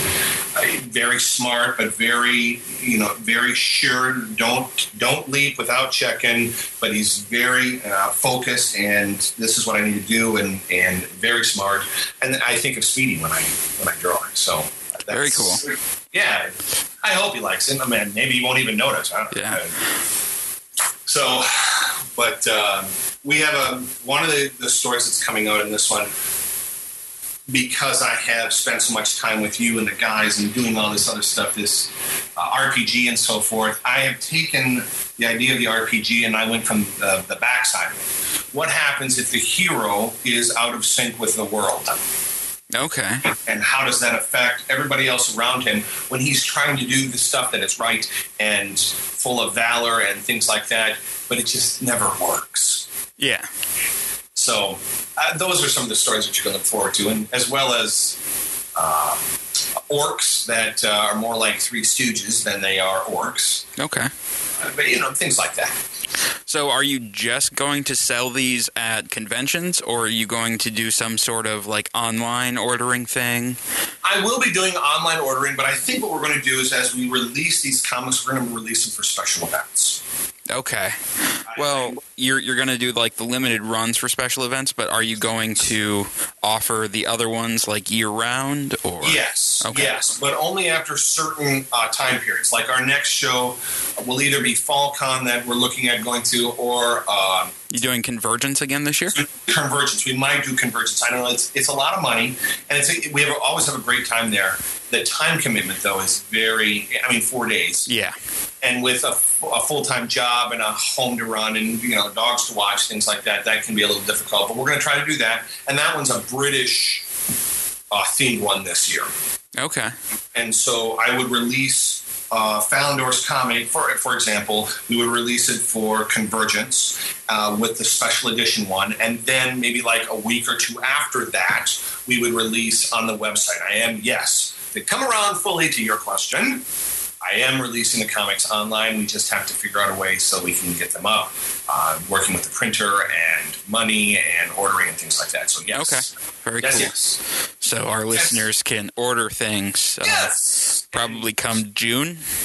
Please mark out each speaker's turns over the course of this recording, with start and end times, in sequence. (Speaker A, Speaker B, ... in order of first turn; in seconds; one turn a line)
Speaker A: 0.5-19.8
Speaker B: 15.1-15.6
Speaker B: 19.3-19.6
Speaker A: 21.1-26.1
Speaker A: 27.5-42.0
Speaker B: 42.7-43.3
Speaker A: 43.3-52.9
Speaker B: 53.2-53.5
Speaker A: 54.4-58.2
Speaker A: 58.8-59.2
Speaker A: 59.9-63.7
Speaker B: 63.8-64.1
Speaker A: 64.6-65.8
Speaker B: 66.5-73.6
Speaker A: 74.0-80.0
Speaker B: 80.5-81.0
Speaker A: 81.5-82.0
Speaker B: 81.5-90.0
Speaker A: 89.0-97.5
Speaker B: 97.7-99.2
Speaker A: 99.2-107.9
Speaker B: 107.9-108.2
Speaker A: 108.6-117.1
Speaker A: 117.9-119.1
Speaker B: 119.6-119.9
Speaker A: 120.3-136.6
Speaker A: 137.2-147.2
Speaker B: 145.7-146.9
Speaker B: 147.6-150.3
Speaker A: 148.1-148.5
Speaker A: 150.0-151.3
Speaker B: 150.9-152.2